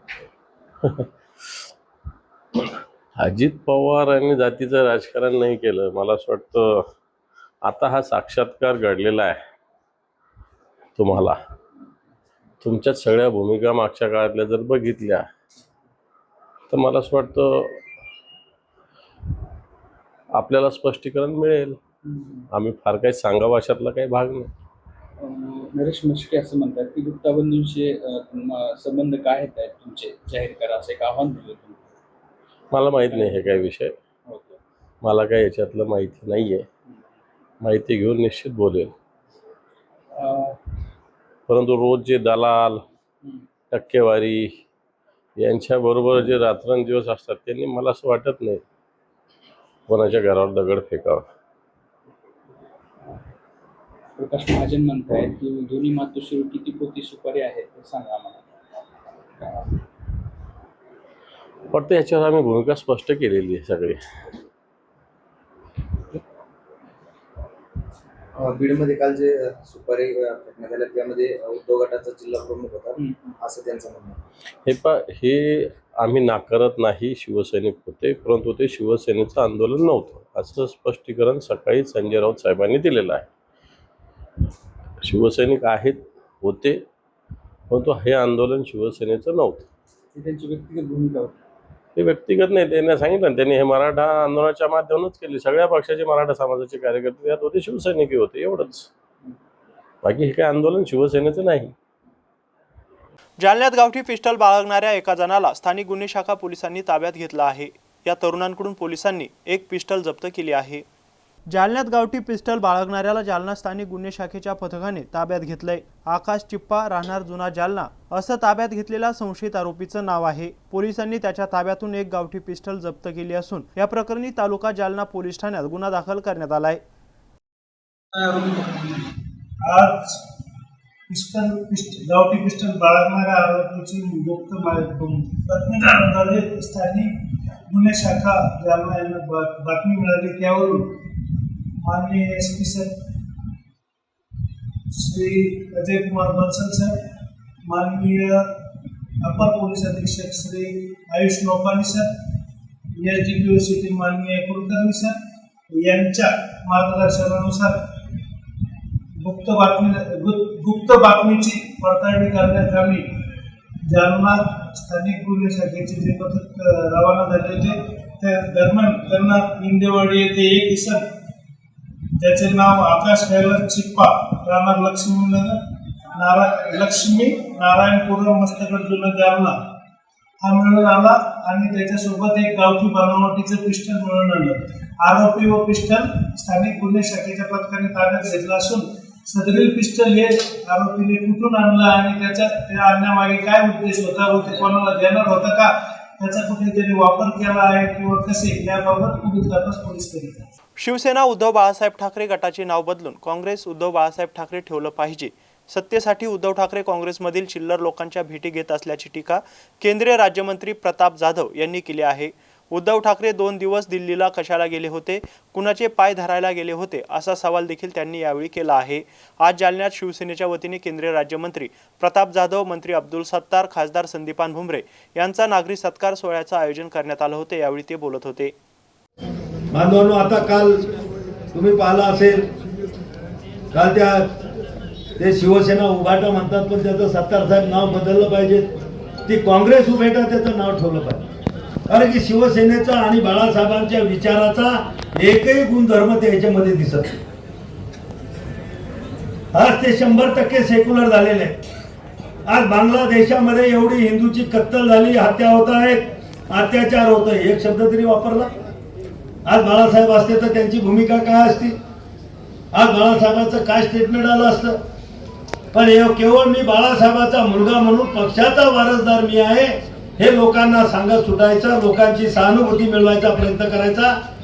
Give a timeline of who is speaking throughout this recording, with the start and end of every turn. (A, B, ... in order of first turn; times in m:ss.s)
0:03.2-0:06.9 A
0:07.6-0:09.4 A
0:11.0-0:11.4 A
0:12.6-0:15.3 A
0:16.7-0:17.8 A
0:20.4-0:21.8 A
0:22.0-0:22.5 B
0:22.5-0:24.5 A
0:25.2-0:31.9 B
0:32.7-0:33.9 A
0:33.0-0:33.7 B
0:34.3-0:34.6 B
0:35.0-0:36.7 A
0:37.6-0:38.9 A
0:40.1-0:40.6 B
0:41.5-0:42.8 A
0:43.7-0:44.5 A
0:45.4-0:48.6 A
0:49.9-0:51.3 A
0:54.2-0:58.5 B
0:59.4-0:59.7 B
1:01.7-1:04.0 A
1:08.4-1:14.2 C
1:13.0-1:13.3 B
1:14.6-1:23.3 A
1:25.0-1:26.8 A
1:27.7-1:29.7 A
1:30.1-1:31.4 B
1:32.0-1:38.9 A
1:40.0-1:41.7 A
1:43.4-1:50.8 D
1:51.5-2:06.8 D
2:08.4-2:08.7 E
2:09.6-2:10.2 E
2:11.1-2:17.2 E
2:17.7-2:21.0 E
2:21.8-2:23.0 E
2:24.9-2:27.0 E
2:27.7-2:28.5 E
2:29.2-2:32.1 E
2:33.0-2:35.2 E
2:35.7-2:37.8 E
2:39.2-2:43.1 E
2:43.9-2:51.1 E
2:52.2-2:55.6 E
2:56.2-2:59.7 E
3:00.4-3:20.5 E
3:20.8-3:48.6 D
3:49.7-3:50.8 F
3:51.5-3:52.4 F
3:53.7-3:54.3 F
3:55.2-3:58.7 F
3:59.3-4:01.2 F
4:01.9-4:07.2 F
4:09.5-4:11.6 F
4:12.5-4:18.5 F
4:19.4-4:21.8 F
4:22.7-4:24.8 F
4:25.7-4:34.2 F